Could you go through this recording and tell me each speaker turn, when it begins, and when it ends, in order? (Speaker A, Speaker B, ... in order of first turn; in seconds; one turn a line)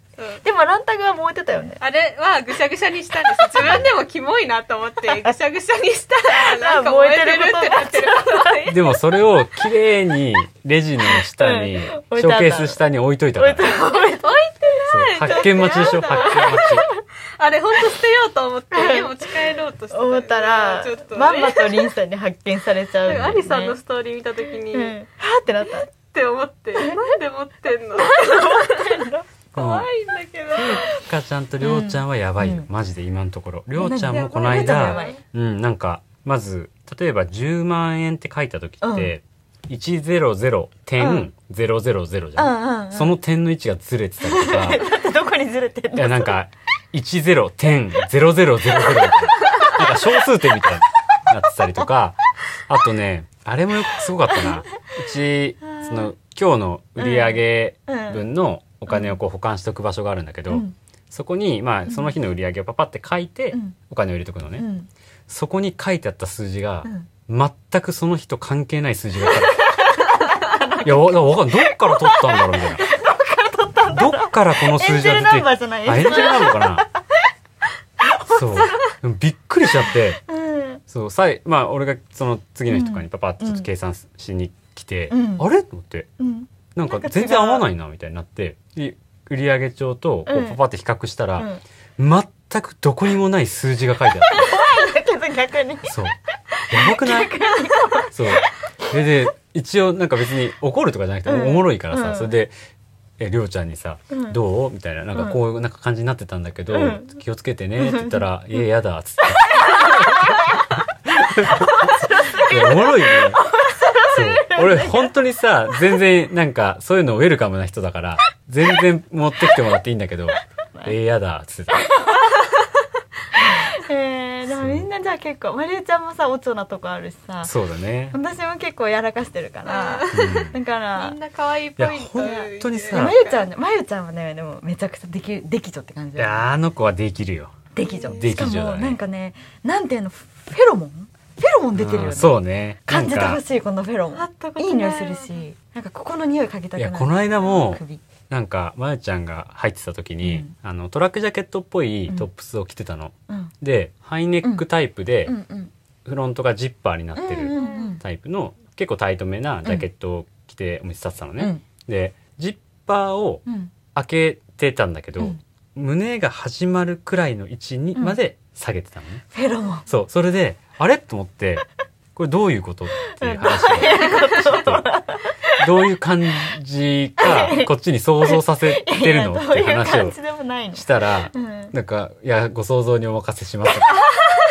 Speaker A: 0.2-0.4
Speaker B: 0.4-1.8
Speaker A: 1.8-8.8
Speaker C: 3.6-3.9
Speaker B: 6.3-8.7
Speaker C: 8.7-13.7
Speaker B: 11.1-12.8
Speaker B: 13.3-14.4
Speaker A: 13.9-16.8
Speaker C: 14.9-16.8
Speaker B: 15.3-16.9
Speaker A: 17.4-21.9
Speaker B: 18.7-19.3
Speaker B: 19.9-23.8
Speaker A: 23.0-24.9
Speaker C: 23.1-23.4
Speaker B: 24.7-25.9
Speaker A: 25.9-30.9
Speaker B: 28.0-29.3
Speaker C: 29.5-29.9
Speaker C: 30.5-44.8
Speaker B: 31.6-32.7
Speaker B: 33.8-35.2
Speaker A: 34.0-35.2
Speaker B: 38.8-39.1
Speaker B: 41.0-41.3
Speaker B: 42.4-43.1
Speaker B: 44.2-46.4
Speaker C: 45.9-64.7
Speaker B: 48.9-50.1
Speaker B: 55.6-56.1
Speaker B: 57.0-58.2
Speaker B: 58.9-59.1
Speaker B: 60.5-60.7
Speaker B: 61.9-62.1
Speaker B: 64.6-64.9
Speaker C: 65.3-69.8
Speaker B: 69.5-77.0
Speaker C: 70.8-72.9
Speaker C: 73.9-76.8
Speaker B: 78.0-78.8
Speaker C: 78.3-80.2
Speaker B: 80.2-80.8
Speaker C: 80.9-86.1
Speaker B: 82.7-83.7
Speaker B: 85.1-85.5
Speaker B: 86.2-87.7
Speaker C: 86.7-94.6
Speaker B: 90.3-90.6
Speaker B: 91.4-91.6
Speaker B: 94.3-96.0
Speaker C: 95.8-96.2
Speaker B: 96.6-98.5
Speaker C: 96.7-97.4
Speaker C: 98.1-102.5
Speaker B: 101.2-102.3
Speaker C: 103.2-121.9
Speaker B: 104.1-104.4
Speaker B: 105.1-105.4
Speaker B: 106.7-107.1
Speaker B: 107.8-108.3
Speaker B: 109.5-110.7
Speaker B: 111.4-115.1
Speaker B: 121.8-122.4
Speaker B: 123.3-127.5
Speaker C: 124.5-124.9
Speaker C: 127.4-128.2
Speaker B: 128.1-131.2
Speaker A: 129.7-133.5
Speaker C: 130.1-130.6
Speaker C: 131.8-133.2
Speaker B: 132.2-136.4
Speaker C: 136.2-137.6
Speaker B: 137.7-148.0
Speaker A: 137.8-138.2
Speaker C: 138.1-139.0
Speaker C: 141.7-143.4
Speaker A: 144.1-145.4
Speaker C: 146.8-155.3
Speaker B: 150.2-150.5
Speaker B: 155.2-155.7
Speaker C: 156.0-163.4
Speaker B: 157.1-158.0
Speaker A: 157.5-158.0
Speaker B: 161.4-161.6
Speaker B: 163.4-163.7
Speaker C: 163.9-169.2
Speaker B: 169.3-169.9
Speaker C: 169.9-174.8
Speaker B: 173.1-175.7
Speaker C: 175.6-180.2
Speaker B: 177.2-177.7
Speaker B: 178.2-181.7
Speaker C: 180.7-184.0